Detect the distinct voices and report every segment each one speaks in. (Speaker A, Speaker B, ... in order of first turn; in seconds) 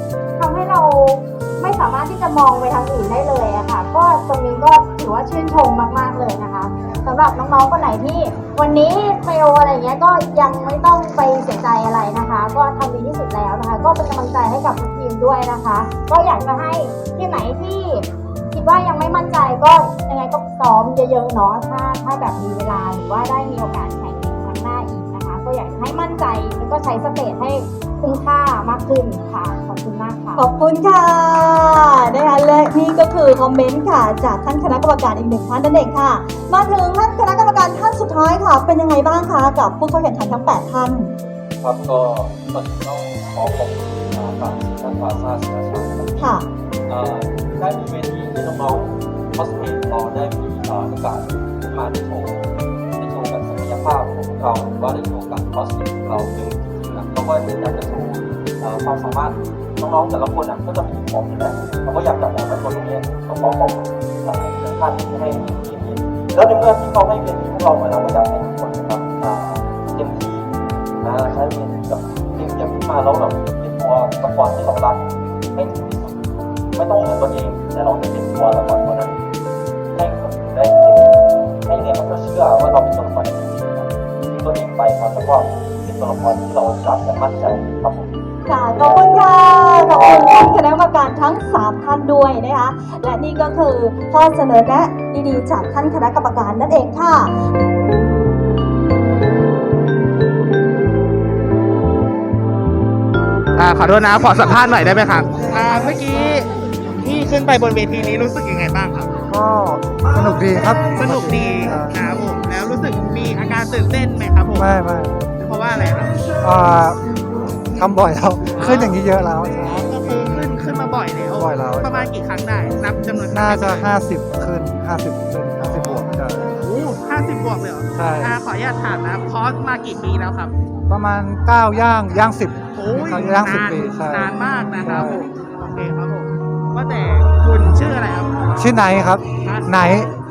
Speaker A: 0.4-30.5
Speaker B: 30.4-41.1, 46.2-46.5, 88.5-97.3
Speaker C: 41.6-70.5, 71.0-79.2, 80.0-88.2
Speaker D: 103.6-106.5, 107.0-109.1, 111.0-114.7, 115.4-116.1, 118.5-119.0, 119.6-123.9, 125.6-130.5, 132.8-138.3, 139.4-140.0
Speaker E: 109.3-112.0, 114.6-115.2, 116.4-117.0, 117.7-119.8, 121.3-122.1, 123.3-126.5, 128.0-128.3, 130.9-135.2, 138.6-140.1